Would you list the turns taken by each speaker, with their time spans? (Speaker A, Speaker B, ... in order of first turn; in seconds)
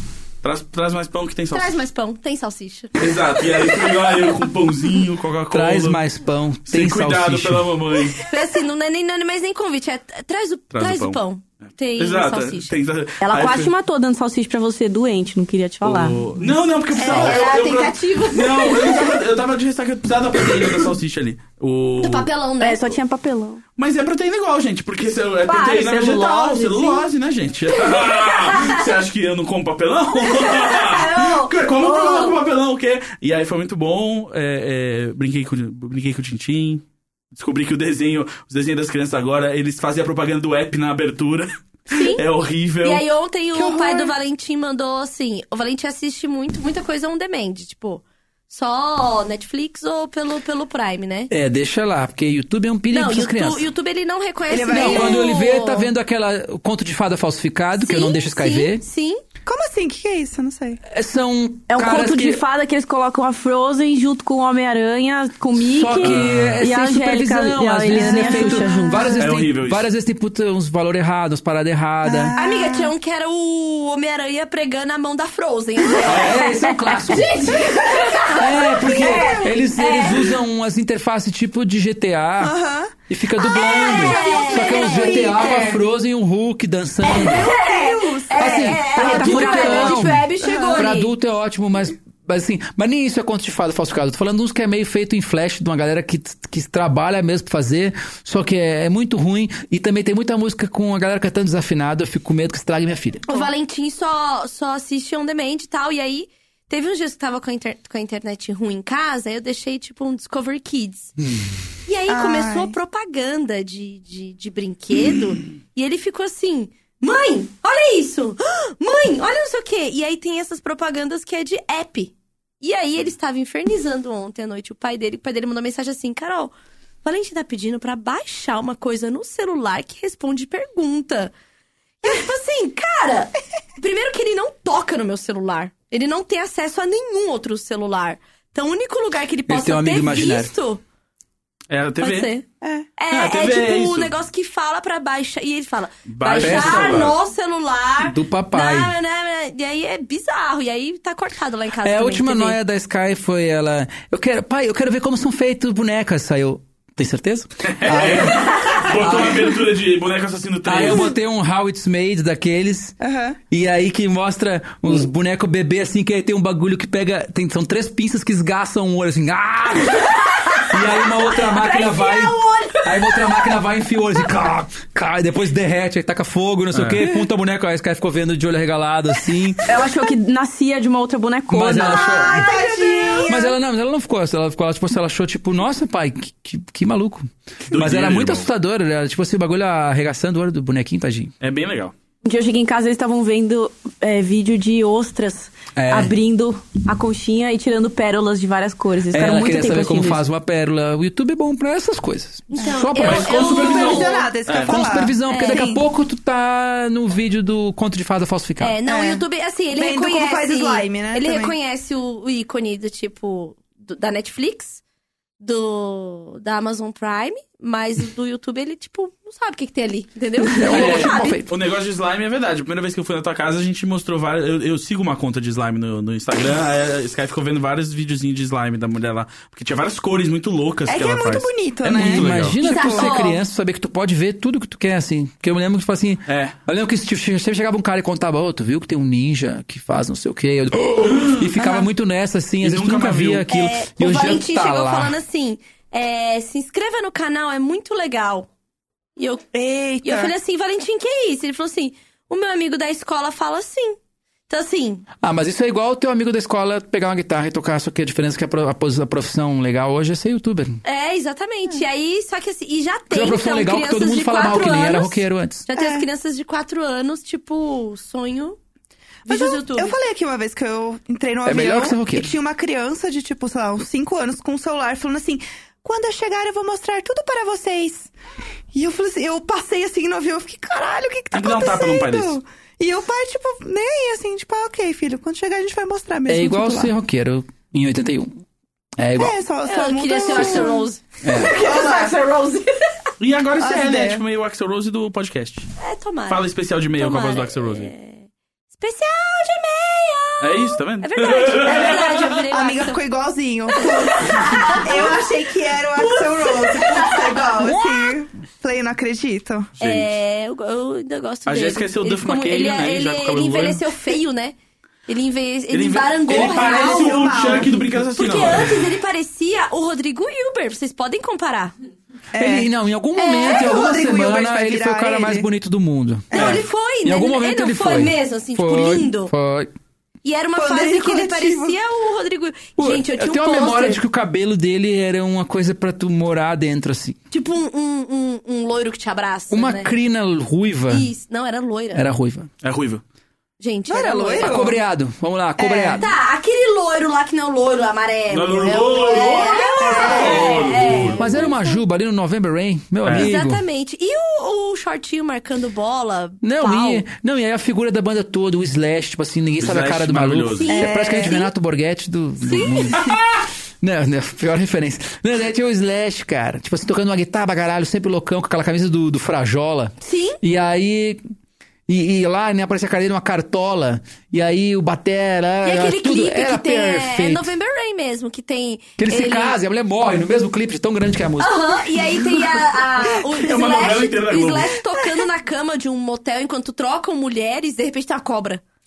Speaker A: 0.4-1.8, 3.0-6.0, 6.7-8.3, 10.7-11.2, 12.0-13.7, 15.8-22.3, 23.8-43.0, 66.0-66.6, 69.2-69.9, 76.1-76.4, 141.7-142.3, 143.1-144.1, 146.1-147.2, 157.6-161.1, 176.7-177.1, 187.7-188.5, 191.4-191.9, 203.0-204.8, 220.7-232.6, 236.3-236.6, 242.6-243.5, 281.3-282.4, 293.2-295.7, 296.3-297.9, 300.4-302.3, 309.8-310.1, 311.5-313.8, 315.7-318.8, 342.6-343.0, 348.3-351.4, 353.0-353.3, 359.6-360.7, 383.3-384.7
Speaker B: 1.5-3.7, 8.2-12.7, 16.9-19.2, 22.0-23.0, 27.7-28.9, 30.1-32.4, 41.9-42.2, 42.8-51.3, 52.9-55.9, 57.8-59.2, 72.4-80.4, 83.4-85.8, 87.1-91.1, 103.3-111.1, 111.9-126.5, 127.0-131.3, 132.0-140.8, 142.0-142.5, 143.0-152.6, 171.3-173.0, 181.8-183.5, 202.5-204.3, 205.3-205.7, 208.6-214.8, 215.4-221.4, 232.6-233.4, 243.5-248.5, 249.2-254.0, 254.5-255.1, 260.8-268.6, 269.3-270.0, 289.6-292.9, 295.8-303.0, 303.7-305.3, 305.9-308.2, 309.8-314.6, 315.1-321.7, 323.2-323.8, 326.3-329.3, 330.2-334.0, 337.3-339.9, 340.9-342.1, 343.6-344.8, 345.9-351.8, 353.1-357.0, 360.6-361.5, 362.4-363.2, 370.0-370.4, 375.6-379.6, 381.4-388.6
Speaker C: 5.5-7.7, 51.3-53.7, 54.7-58.9, 60.9-62.4, 65.6-72.3, 76.0-77.5, 78.3-82.5, 83.1-87.5, 88.4-103.3, 139.5-140.5, 146.4-147.1, 148.0-148.9, 151.8-159.6, 160.7-163.0, 163.5-179.8, 181.5-182.5, 183.2-191.3, 195.8-196.2, 199.1-208.8, 220.4-221.5, 231.9-245.2, 255.2-260.8, 263.1-265.7, 271.4-272.3, 286.3-288.4, 289.0-289.4, 290.3-290.7, 291.2-291.5, 322.4-329.7, 332.8-337.2, 339.5-341.1, 341.9-342.5, 344.4-346.1, 351.1-353.6, 356.4-371.2, 371.9-377.5, 379.0-381.6
Speaker D: 13.2-16.3, 22.6-23.6, 25.5-27.0, 61.7-69.1, 88.9-90.2, 179.7-182.1, 192.2-200.2
Speaker E: 17.0-17.6, 43.5-44.1, 54.5-55.3, 59.5-60.8, 68.0-69.2, 72.0-72.9, 78.9-79.5, 82.4-82.9, 83.7-85.8, 87.0-89.9, 90.4-90.9, 112.1-112.8, 142.6-142.9, 163.0-163.4, 182.1-183.5, 203.3-205.8, 208.9-211.6, 230.9-233.1, 241.6-241.9, 249.5-250.3, 265.8-266.1, 269.3-278.1, 278.7-286.9, 289.2-290.9, 291.5-292.1, 293.6-294.2, 301.6-309.7, 316.3-317.8, 322.3-322.7, 323.4-325.5, 326.3-326.6, 330.6-331.8, 343.9-344.8, 345.6-346.1, 349.1-351.0, 360.7-361.4